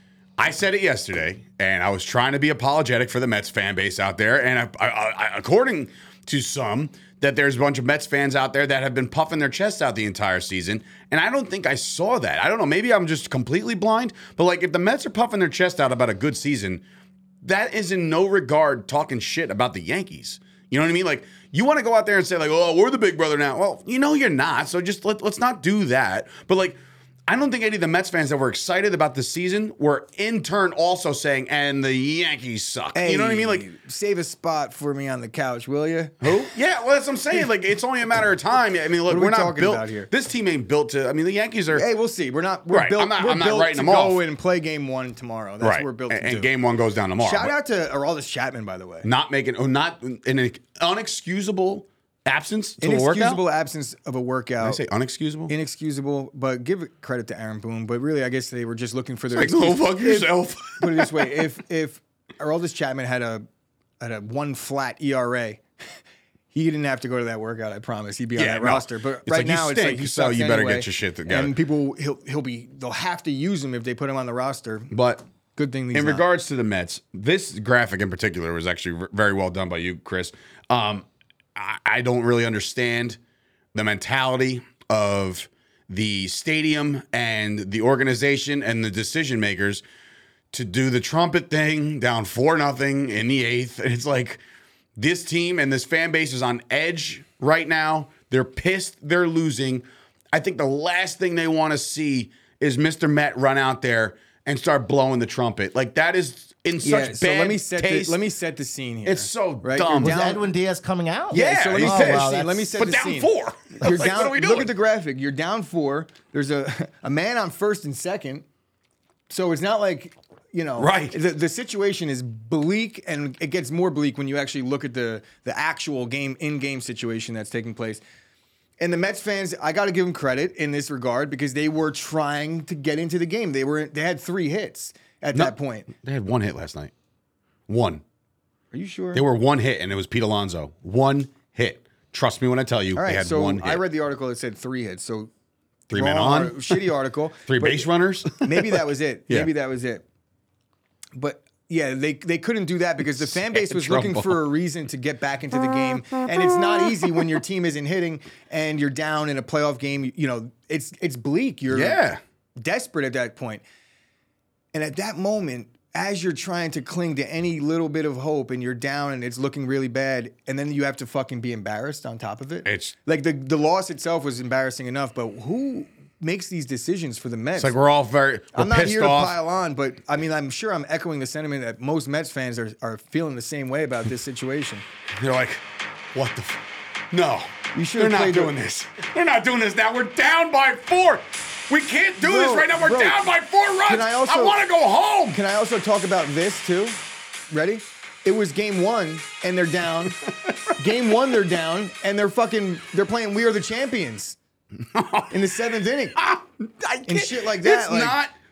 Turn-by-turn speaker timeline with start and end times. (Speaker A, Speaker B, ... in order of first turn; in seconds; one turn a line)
Speaker A: 0.4-16.8
Speaker A: 17.4-33.6
Speaker B: 33.0-36.4
Speaker A: 36.2-41.9
Speaker B: 39.1-40.1
Speaker B: 41.7-46.5
Speaker A: 42.7-44.2
Speaker A: 45.6-47.5
Speaker B: 47.2-49.1
Speaker A: 49.0-53.4
Speaker B: 52.8-54.8
Speaker A: 54.6-55.5
Speaker B: 55.5-60.3
Speaker A: 59.3-61.3
Speaker B: 60.8-63.5
Speaker B: 64.0-65.6
Speaker B: 66.5-74.9
Speaker A: 68.4-71.5
Speaker A: 74.9-75.2
Speaker B: 75.6-76.2
Speaker A: 75.9-81.0
Speaker A: 81.6-83.2
Speaker A: 83.7-89.8
Speaker A: 90.5-94.4
Speaker A: 95.0-108.2
Speaker B: 106.8-110.4
Speaker A: 109.0-110.2
Speaker C: 110.0-112.8
Speaker B: 111.3-118.5
Speaker A: 111.3-114.7
Speaker B: 119.3-128.0
Speaker A: 120.8-121.2
Speaker B: 128.8-135.9
Speaker A: 135.3-136.9
Speaker A: 137.7-138.0
Speaker B: 138.7-139.2
Speaker A: 139.1-143.8
Speaker B: 142.9-145.3
Speaker A: 145.9-146.9
Speaker B: 145.9-147.9
Speaker A: 147.5-149.5
Speaker B: 148.4-150.0
Speaker B: 151.1-162.0
Speaker A: 153.1-154.4
Speaker A: 155.5-157.3
Speaker A: 161.7-162.2
Speaker B: 162.6-163.6
Speaker B: 164.7-177.7
Speaker A: 172.7-172.9
Speaker A: 177.6-179.4
Speaker B: 178.6-184.8
Speaker A: 185.2-185.6
Speaker A: 186.1-186.6
Speaker A: 187.1-195.4
Speaker B: 187.7-188.5
Speaker B: 192.2-193.2
Speaker B: 193.9-194.6
Speaker B: 195.3-197.0
Speaker B: 197.5-200.2
Speaker B: 200.8-204.4
Speaker A: 204.9-205.5
Speaker B: 205.3-206.2
Speaker A: 206.2-208.3
Speaker B: 207.1-208.2